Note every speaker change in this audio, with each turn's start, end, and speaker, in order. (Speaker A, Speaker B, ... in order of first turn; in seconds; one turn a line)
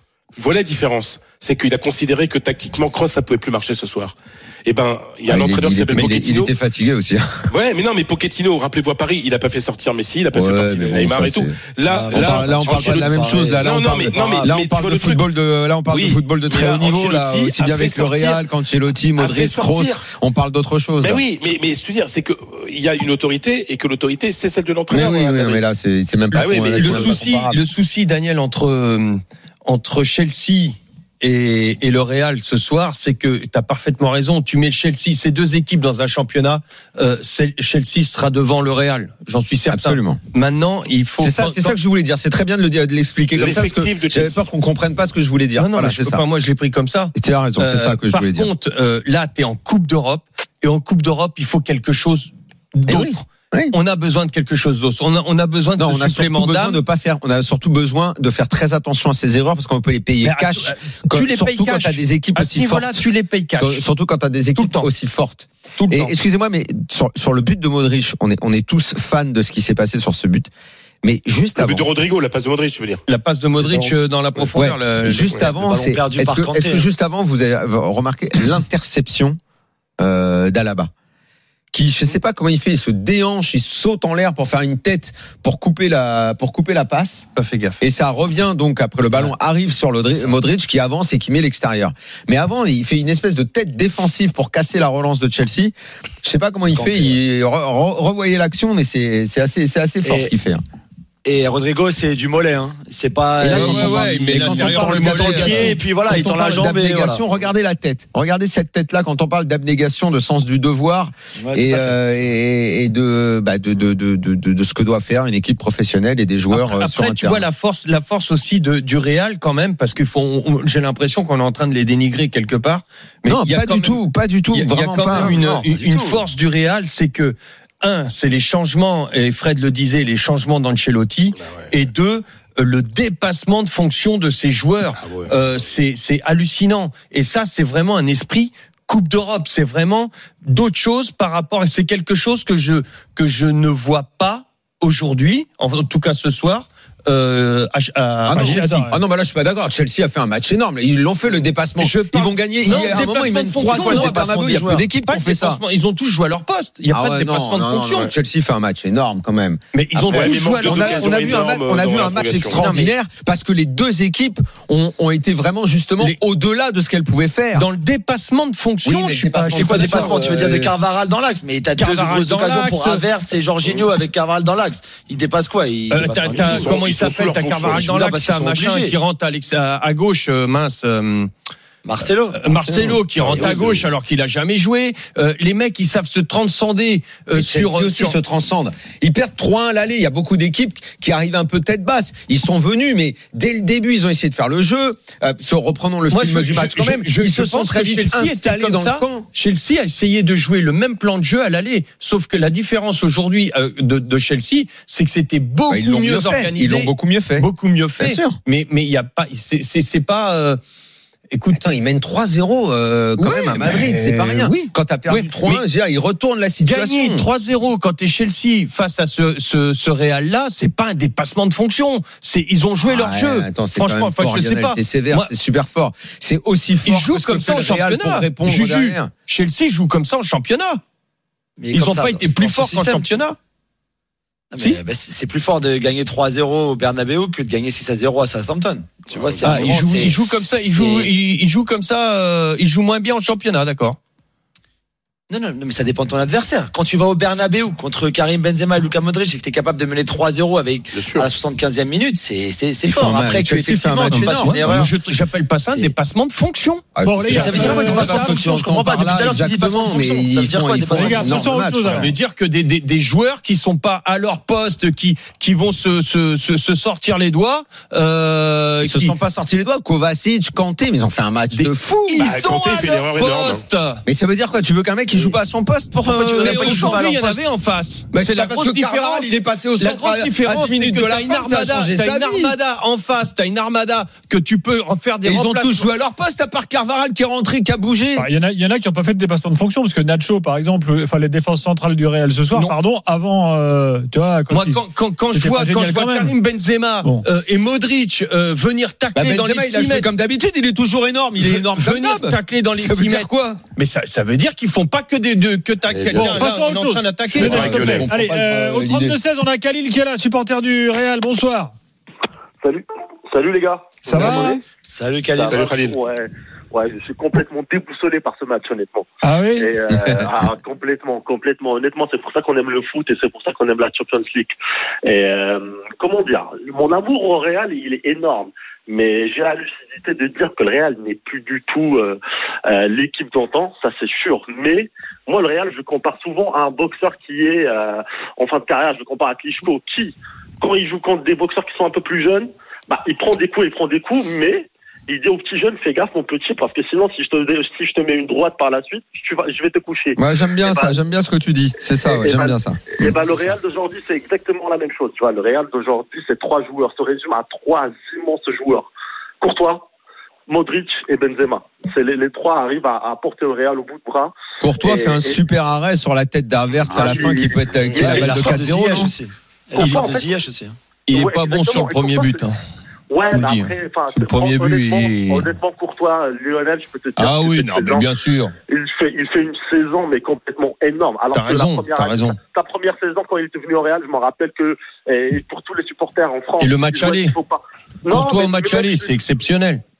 Speaker A: 0.3-6.5
Speaker B: 5.3-7.5
Speaker A: 7.5-15.3
Speaker B: 10.3-21.2
Speaker C: 11.8-14.5
Speaker A: 15.9-18.4
Speaker A: 19.1-20.0
Speaker A: 21.0-25.6
Speaker B: 24.9-27.6
Speaker A: 26.3-27.2
Speaker D: 26.3-41.8
Speaker B: 39.7-40.2
Speaker B: 41.2-46.2
Speaker A: 43.3-44.4
Speaker D: 45.6-53.2
Speaker B: 47.1-48.5
Speaker B: 52.9-53.7
Speaker D: 53.7-56.8
Speaker B: 55.8-63.0
Speaker D: 60.2-63.8
Speaker B: 63.6-70.5
Speaker D: 64.5-64.9
Speaker D: 65.8-66.1
Speaker B: 71.0-71.9
Speaker A: 71.5-73.0
Speaker D: 73.1-75.4
Speaker C: 73.6-73.9
Speaker B: 74.5-79.4
Speaker C: 75.4-76.8
Speaker B: 80.0-80.9
Speaker B: 81.7-87.2
Speaker D: 87.3-87.8
Speaker B: 87.8-100.6
Speaker C: 90.1-90.3
Speaker C: 96.7-97.1
Speaker C: 100.0-100.3
Speaker C: 101.2-107.2
Speaker B: 103.4-117.5
Speaker D: 103.5-105.8
Speaker C: 111.4-112.2
Speaker D: 116.5-124.0
Speaker B: 123.2-125.4
Speaker D: 124.5-148.8
Speaker C: 125.1-126.2
Speaker A: 131.4-131.7
Speaker A: 135.0-135.3
Speaker B: 148.3-155.6
Speaker E: 148.3-149.0
Speaker D: 151.8-158.1
Speaker C: 152.7-154.9
Speaker B: 156.9-167.7
Speaker D: 159.7-161.4
Speaker A: 160.1-162.7
Speaker C: 162.5-162.9
Speaker D: 167.5-170.1
Speaker B: 168.8-170.7
Speaker E: 169.3-169.8
Speaker C: 169.5-176.7
Speaker D: 171.8-173.1
Speaker D: 175.9-181.3
Speaker A: 176.3-177.8
Speaker C: 177.8-178.9
Speaker C: 181.8-182.4
Speaker D: 182.3-188.2
Speaker B: 182.7-183.0
Speaker A: 183.2-183.9
Speaker B: 187.3-199.2
Speaker D: 196.1-210.6
Speaker B: 205.7-207.5
Speaker B: 208.0-208.4
Speaker D: 211.3-211.6
Speaker B: 211.5-217.3
Speaker D: 213.2-215.6
Speaker D: 216.6-225.3
Speaker B: 222.8-229.1
Speaker D: 226.8-230.8
Speaker C: 231.6-233.1
Speaker D: 231.7-233.3
Speaker C: 234.5-241.1
Speaker D: 234.6-234.8
Speaker A: 239.1-239.7
Speaker D: 239.4-244.0
Speaker C: 245.3-254.9
Speaker A: 250.9-251.3
Speaker B: 252.8-254.6
Speaker D: 254.1-258.1
Speaker C: 255.7-255.9
Speaker B: 256.9-262.1
Speaker E: 257.0-258.4
Speaker C: 257.3-261.5
Speaker E: 260.9-262.1
Speaker D: 261.8-269.1
Speaker B: 268.8-272.3
Speaker D: 271.5-274.0
Speaker A: 272.2-273.6
Speaker B: 274.1-277.4
Speaker D: 276.0-285.9
Speaker C: 276.3-277.1
Speaker B: 278.1-282.5
Speaker B: 285.2-288.3
Speaker E: 288.1-296.3
Speaker D: 294.5-300.1
Speaker B: 299.1-303.6
Speaker D: 301.4-308.0
Speaker A: 305.9-306.3
Speaker E: 306.1-311.7
Speaker B: 307.3-309.2
Speaker A: 307.4-308.1
Speaker F: 312.6-314.6
Speaker E: 314.0-314.6
Speaker C: 314.8-315.6
Speaker F: 315.2-324.5
Speaker A: 315.4-316.0
Speaker E: 319.2-319.7
Speaker B: 319.9-320.4
Speaker F: 325.0-351.0
Speaker B: 350.2-353.5
Speaker F: 352.0-358.9
Speaker F: 359.4-359.9
Speaker F: 360.5-365.4
Speaker B: 364.6-369.1
Speaker C: 366.9-367.4
Speaker F: 366.9-368.0
Speaker D: 368.0-368.6
Speaker C: 368.0-370.8
Speaker F: 369.7-370.3
Speaker D: 369.8-370.1
Speaker D: 371.1-372.6
Speaker F: 371.1-372.5
Speaker F: 373.1-378.1
Speaker D: 373.2-375.5
Speaker D: 377.1-378.5
Speaker F: 378.7-389.1
Speaker D: 381.3-382.4
Speaker D: 386.6-387.4
Speaker D: 388.1-389.8